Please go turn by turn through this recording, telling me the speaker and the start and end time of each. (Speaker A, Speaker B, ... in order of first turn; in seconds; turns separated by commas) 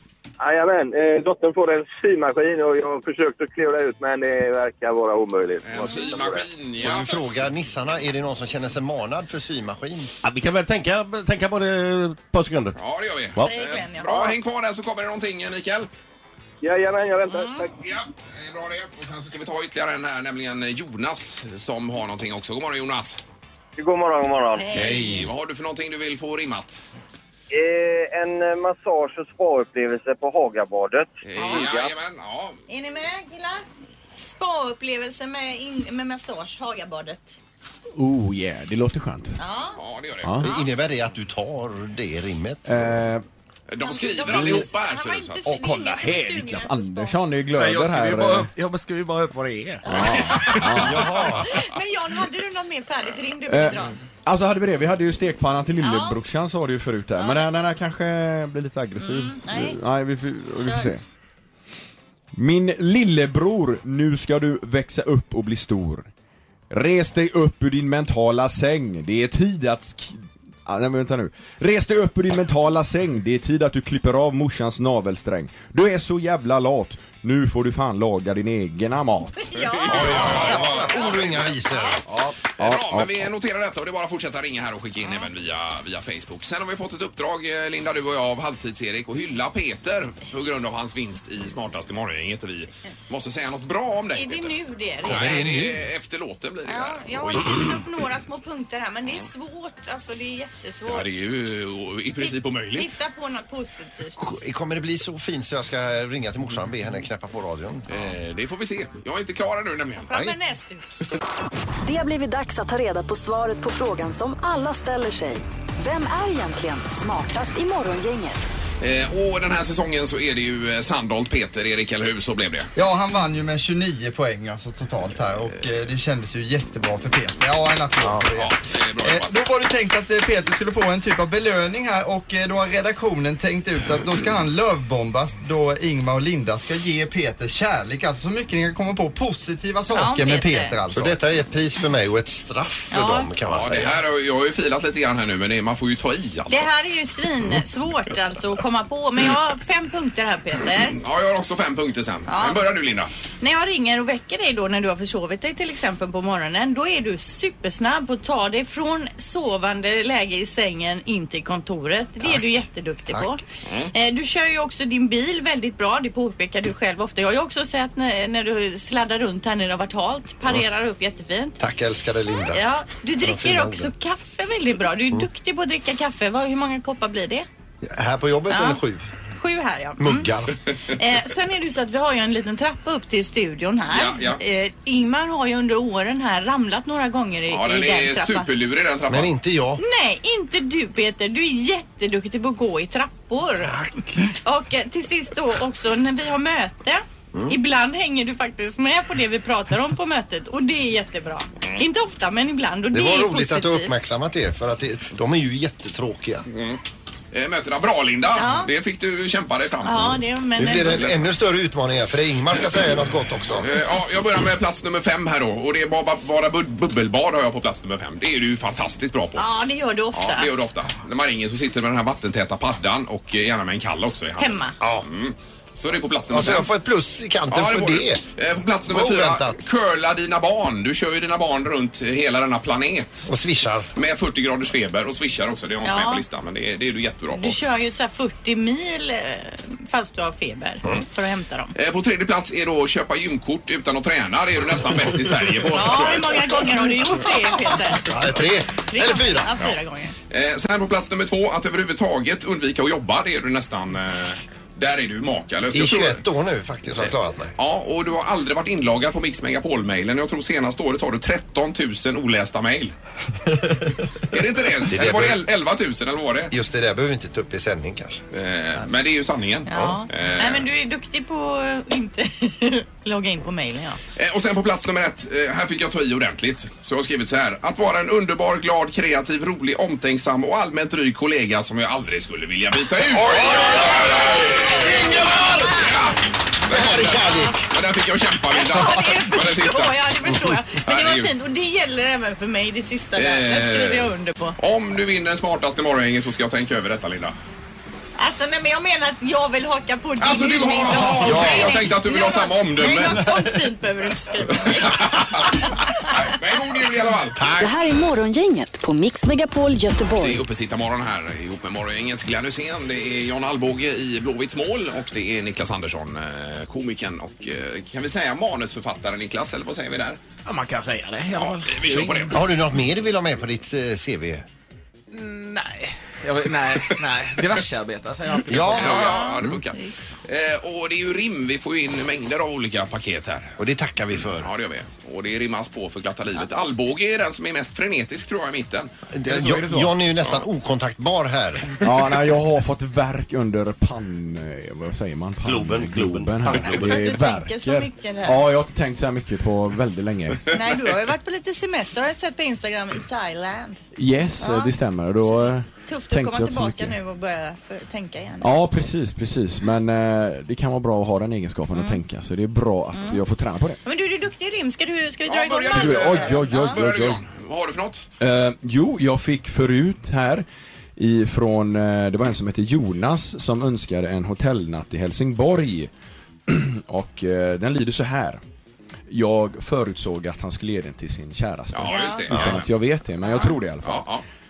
Speaker A: 0.4-6.5, Speaker B: 5.6-7.1, Speaker C: 6.8-10.1, Speaker D: 10.2-12.8, Speaker B: 12.8-15.9, Speaker E: 13.4-14.3, Speaker A: 16.6-17.7, Speaker E: 17.3-17.7, Speaker B: 17.8-23.2, Speaker A: 23.8-24.7, Speaker E: 24.6-25.1, Speaker B: 24.7-26.8, Speaker C: 24.7-25.2, Speaker A: 27.5-31.9, Speaker B: 31.2-32.6, Speaker E: 31.4-31.7, Speaker E: 32.7-33.6, Speaker E: 34.2-37.3, Speaker F: 38.0-39.4, Speaker E: 39.4-39.8, Speaker B: 39.8-40.4, Speaker F: 40.2-40.5, Speaker C: 40.4-42.9, Speaker F: 42.6-43.2, Speaker B: 43.7-45.8, Speaker E: 43.8-47.2, Speaker F: 44.2-44.7, Speaker F: 45.4-48.5, Speaker G: 47.5-50.8, Speaker E: 49.8-53.9, Speaker F: 49.9-51.1, Speaker C: 50.7-51.5, Speaker F: 53.5-61.0, Speaker E: 55.8-56.2, Speaker E: 59.0-59.8, Speaker E: 60.6-60.9, Speaker F: 62.3-66.1, Speaker F: 66.7-79.6, Speaker E: 79.3-82.0, Speaker B: 79.6-81.5, Speaker C: 79.9-82.0, Speaker F: 82.1-83.3, Speaker B: 82.6-97.7, Speaker E: 94.1-95.4, Speaker C: 95.0-95.8, Speaker E: 96.7-101.1, Speaker B: 100.9-102.9, Speaker E: 102.2-104.2, Speaker C: 104.2-108.1, Speaker B: 107.9-110.1, Speaker E: 110.0-110.8, Speaker H: 111.8-118.6, Speaker B: 118.8-122.7, Speaker I: 122.8-141.2, Speaker B: 128.2-129.4, Speaker E: 139.9-140.7, Speaker C: 140.9-144.0, Speaker E: 142.9-143.3, Speaker B: 143.5-146.7, Speaker E: 146.5-151.0, Speaker B: 150.9-153.1, Speaker E: 152.3-152.6, Speaker E: 153.4-163.4, Speaker C: 163.1-163.4, Speaker B: 163.6-163.9, Speaker E: 163.9-171.6, Speaker C: 171.6-172.6, Speaker E: 172.5-177.5, Speaker C: 173.2-173.9, Speaker C: 177.8-179.0, Speaker E: 178.5-178.8, Speaker E: 179.3-180.3, Speaker C: 180.0-180.5, Speaker E: 180.9-188.5, Speaker B: 183.9-184.4, Speaker B: 187.5-189.3, Speaker C: 189.1-189.8, Speaker E: 189.8-203.9, Speaker C: 193.7-194.1, Speaker C: 202.9-206.4, Speaker B: 206.5-206.8, Speaker B: 207.3-211.3, Speaker E: 208.3-208.7, Speaker E: 209.8-211.0, Speaker C: 210.6-213.8, Speaker B: 213.6-219.4, Speaker E: 219.4-220.5, Speaker B: 220.1-226.7, Speaker E: 224.4-224.7, Speaker C: 224.8-225.1, Speaker C: 226.3-228.2, Speaker B: 227.5-233.3, Speaker C: 228.9-229.6, Speaker C: 233.3-233.9, Speaker B: 233.9-237.6, Speaker E: 235.8-236.2, Speaker E: 237.3-241.7, Speaker B: 241.7-246.7, Speaker E: 245.7-248.1, Speaker C: 248.0-249.5, Speaker E: 248.9-250.1, Speaker B: 250.3-256.2, Speaker C: 255.7-257.5, Speaker B: 257.0-262.9, Speaker B: 264.3-266.5, Speaker C: 264.9-265.4, Speaker C: 266.5-268.2, Speaker B: 268.3-270.7, Speaker E: 269.7-274.0, Speaker B: 274.1-289.9, Speaker C: 283.2-285.8, Speaker E: 284.6-286.0, Speaker C: 286.7-287.6, Speaker E: 287.1-287.5, Speaker E: 288.5-294.6, Speaker B: 290.7-291.3, Speaker B: 293.1-297.3, Speaker E: 298.2-305.5, Speaker B: 300.2-303.3, Speaker C: 301.1-301.8, Speaker B: 304.7-307.6, Speaker C: 307.4-307.7, Speaker H: 307.6-310.4, Speaker B: 310.2-320.2, Speaker G: 320.4-322.4, Speaker B: 321.3-322.4, Speaker C: 322.3-324.4, Speaker G: 325.1-329.2, Speaker C: 328.5-329.6, Speaker B: 328.7-333.6, Speaker E: 328.8-330.0, Speaker C: 333.6-334.5, Speaker B: 334.3-338.9, Speaker C: 339.1-341.7, Speaker F: 339.3-339.6, Speaker F: 341.8-350.6, Speaker D: 345.4-347.0, Speaker E: 346.6-348.5, Speaker E: 350.5-353.8, Speaker F: 353.9-356.9, Speaker E: 354.4-358.6, Speaker F: 358.4-363.8, Speaker E: 361.7-362.0, Speaker E: 362.9-363.2, Speaker E: 363.8-366.8, Speaker B: 365.2-368.1, Speaker F: 365.7-367.2, Speaker F: 368.2-370.4, Speaker F: 371.0-375.9, Speaker F: 376.5-378.4, Speaker F: 379.1-384.1, Speaker B: 381.7-382.6, Speaker E: 381.9-382.3, Speaker C: 382.3-382.6, Speaker E: 383.2-383.5, Speaker B: 383.8-384.2